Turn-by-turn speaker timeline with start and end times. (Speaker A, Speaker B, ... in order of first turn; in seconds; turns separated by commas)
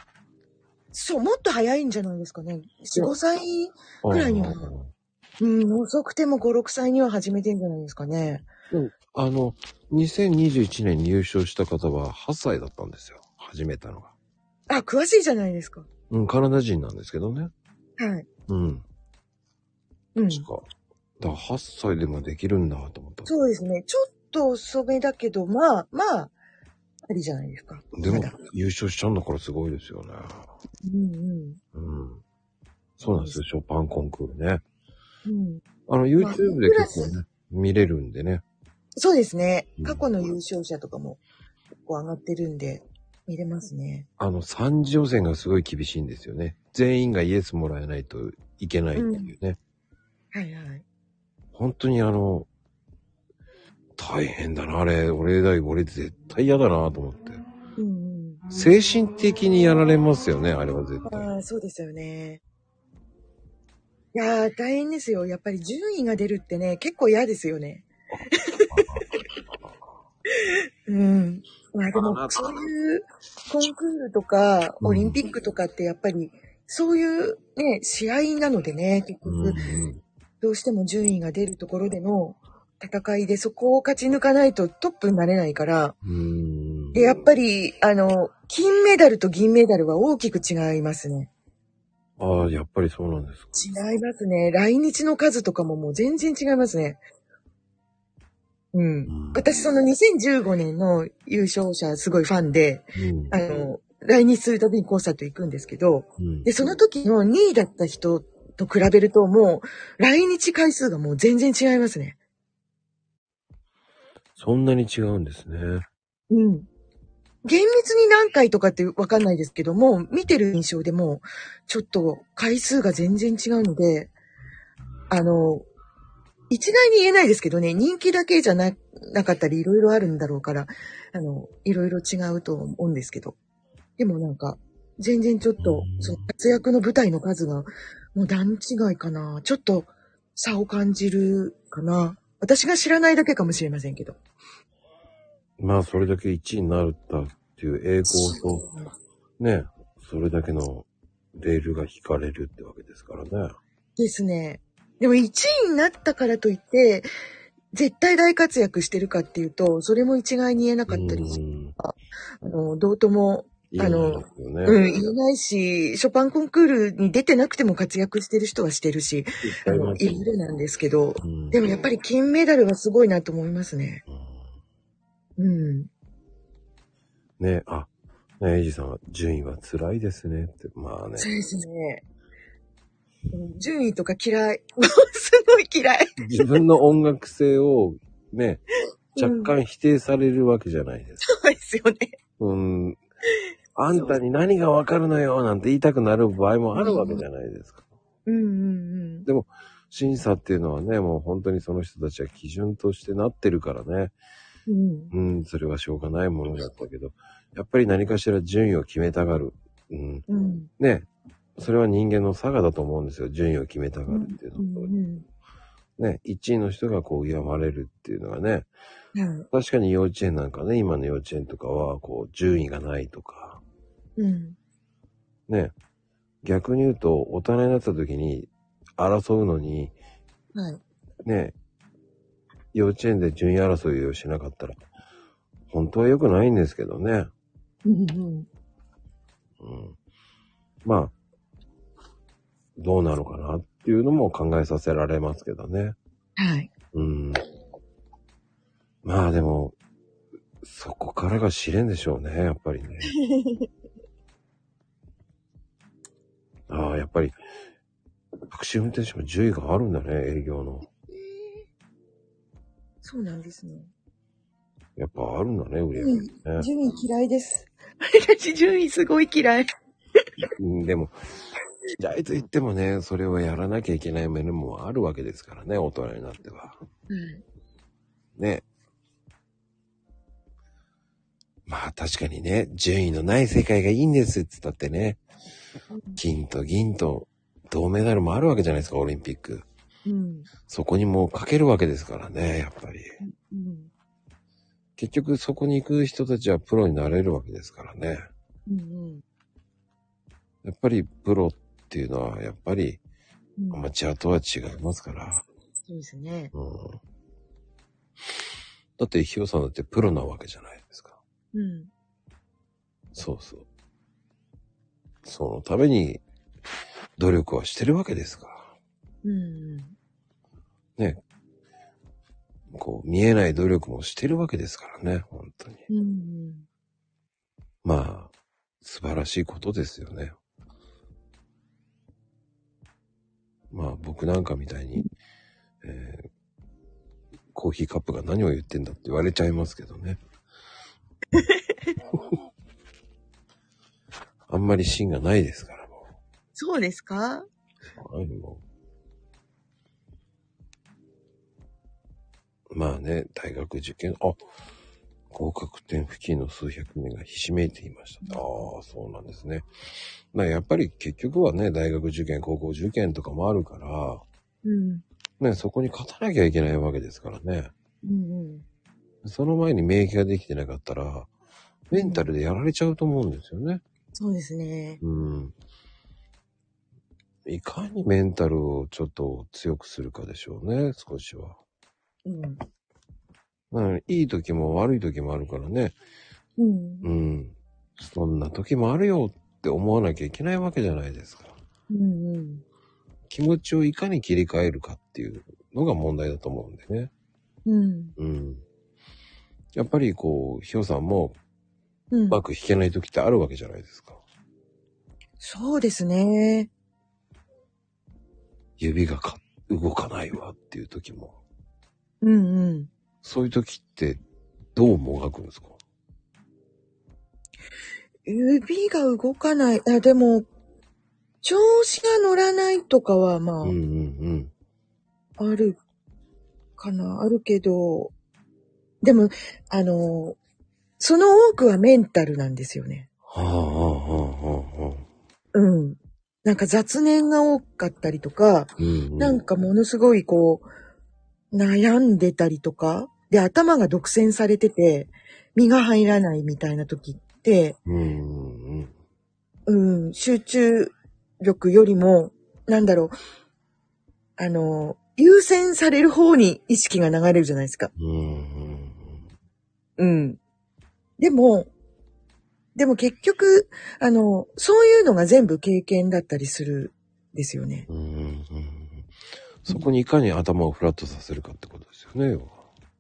Speaker A: 0.9-4.7, Speaker B: 4.0-4.9, Speaker A: 5.4-8.5, Speaker B: 8.7-14.1, Speaker A: 14.7-15.9, Speaker B: 16.1-17.5, Speaker A: 18.0-18.3, Speaker B: 18.5-18.8, Speaker A: 20.1-20.5, Speaker B: 20.3-20.6, Speaker B: 21.2-23.3, Speaker A: 23.3-26.3, Speaker A: 27.1-28.4, Speaker B: 27.9-30.5, Speaker A: 30.8-31.6, Speaker B: 31.7-32.2, Speaker B: 33.0-34.6, Speaker A: 33.1-33.4, Speaker A: 35.3-35.6, Speaker B: 35.9-38.4, Speaker A: 36.2-37.1, Speaker A: 39.0-41.2, Speaker A: 41.9-44.1, Speaker B: 44.2-49.6, Speaker A: 49.0-49.3, Speaker A: 50.3-50.9, Speaker B: 51.5-52.5, Speaker B: 54.0-57.4, Speaker A: 57.8-58.5, Speaker B: 58.5-61.3, Speaker A: 61.1-62.4, Speaker A: 64.1-68.9, Speaker B: 68.7-69.8, Speaker A: 70.9-79.6, Speaker B: 71.9-72.7, Speaker B: 74.8-75.2, Speaker B: 79.2-80.0, Speaker A: 80.4-86.0, Speaker B: 86.0-87.1, Speaker A: 86.9-91.3, Speaker B: 92.2-93.5, Speaker A: 93.5-97.0, Speaker A: 98.7-112.2, Speaker B: 99.1-99.4, Speaker B: 103.0-103.4, Speaker B: 106.2-106.5, Speaker B: 114.4-115.8, Speaker A: 116.3-116.7, Speaker A: 117.4-124.1, Speaker A: 125.1-125.7, Speaker A: 126.5-133.4, Speaker A: 134.0-144.2, Speaker B: 135.6-136.3, Speaker B: 145.6-148.7, Speaker A: 148.1-148.9, Speaker B: 149.4-153.5, Speaker A: 154.0-157.1, Speaker A: 157.7-174.0, Speaker B: 160.9-161.8, Speaker B: 163.7-164.8, Speaker B: 169.4-170.2, Speaker B: 171.2-171.7, Speaker B: 174.1-174.5, Speaker A: 175.4-175.9, Speaker B: 177.4-181.3, Speaker A: 181.2-182.0, Speaker A: 183.3-186.2, Speaker B: 186.2-188.6, Speaker A: 189.2-189.5, Speaker B: 189.2-191.2, Speaker A: 191.2-192.1, Speaker B: 192.4-193.0, Speaker B: 193.8-197.8, Speaker A: 196.8-197.2, Speaker A: 198.3-199.3, Speaker B: 199.3-204.1, Speaker A: 204.7-205.1, Speaker B: 205.1-210.3, Speaker A: 210.3-210.7, Speaker B: 210.8-214.9, Speaker A: 214.1-215.3, Speaker B: 216.0-218.7, Speaker A: 219.2-219.5, Speaker B: 219.5-223.6, Speaker A: 224.2-224.6, Speaker B: 225.5-225.7, Speaker B: 226.4-229.9, Speaker A: 230.6-230.8, Speaker B: 231.2-231.5, Speaker B: 232.7-234.8, Speaker B: 235.7-237.3, Speaker A: 237.8-238.5, Speaker B: 239.6-240.0, Speaker B: 240.8-241.1, Speaker B: 242.8-246.0, Speaker A: 246.4-246.7, Speaker B: 246.9-247.4, Speaker B: 249.0-249.8, Speaker B: 250.6-253.1, Speaker A: 253.2-253.7, Speaker B: 256.7-257.4, Speaker B: 258.5-260.9, Speaker A: 261.1-261.7, Speaker A: 263.0-263.9, Speaker B: 265.0-266.7, Speaker A: 266.0-269.7, Speaker B: 270.6-271.2, Speaker B: 272.0-276.8, Speaker A: 277.1-277.4, Speaker B: 278.4-278.6, Speaker B: 281.7-285.2, Speaker A: 285.9-286.2, Speaker B: 286.2-289.6, Speaker A: 290.1-290.5, Speaker B: 290.7-293.1, Speaker A: 293.2-293.9, Speaker B: 295.0-298.3, Speaker A: 298.7-299.2, Speaker B: 300.6-303.0, Speaker A: 303.6-303.9, Speaker B: 303.7-305.4, Speaker A: 305.9-306.5, Speaker B: 306.5-307.0, Speaker B: 309.0-311.2, Speaker A: 311.5-311.9, Speaker B: 313.1-313.6, Speaker B: 315.2-316.2, Speaker B: 317.2-318.7, Speaker A: 319.2-319.9, Speaker B: 322.7-325.9, Speaker A: 325.9-326.7, Speaker B: 327.8-330.4, Speaker B: 333.7-335.1, Speaker B: 335.8-336.3, Speaker B: 337.5-340.2, Speaker A: 341.3-341.9, Speaker B: 344.5-346.0, Speaker A: 346.6-347.5, Speaker B: 347.9-348.6, Speaker B: 352.7-354.4, Speaker B: 355.3-359.7, Speaker B: 360.3-364.2, Speaker A: 364.6-365.0, Speaker B: 365.4-367.7, Speaker A: 368.0-368.6, Speaker B: 369.2-371.3, Speaker B: 371.9-373.8, Speaker A: 371.9-372.3, Speaker A: 374.1-375.0, Speaker B: 375.0-375.6, Speaker B: 377.5-381.6, Speaker A: 382.2-382.6, Speaker B: 383.7-386.0, Speaker A: 386.6-387.1, Speaker B: 387.0-391.6, Speaker A: 391.9-392.6, Speaker B: 393.3-397.1, Speaker A: 397.7-398.1, Speaker B: 398.2-398.6, Speaker B: 399.8-401.4, Speaker A: 402.1-402.4, Speaker B: 402.3-404.2, Speaker A: 405.4-406.7, Speaker B: 408.8-411.4, Speaker A: 412.2-412.9, Speaker B: 413.2-414.2, Speaker B: 414.8-415.8, Speaker A: 418.3-420.5, Speaker A: 421.4-423.8, Speaker B: 423.6-424.5, Speaker A: 425.4-425.8, Speaker A: 426.8-428.1, Speaker A: 429.0-430.4, Speaker A: 431.0-433.1, Speaker B: 433.3-435.1, Speaker A: 435.5-440.7, Speaker B: 438.8-439.4, Speaker A: 441.5-447.8, Speaker B: 447.9-448.9, Speaker A: 449.7-453.1, Speaker A: 454.4-457.9, Speaker B: 458.0-459.2, Speaker A: 460.0-460.4, Speaker A: 461.2-461.7, Speaker A: 462.8-467.9, Speaker B: 467.9-469.1, Speaker B: 469.6-472.6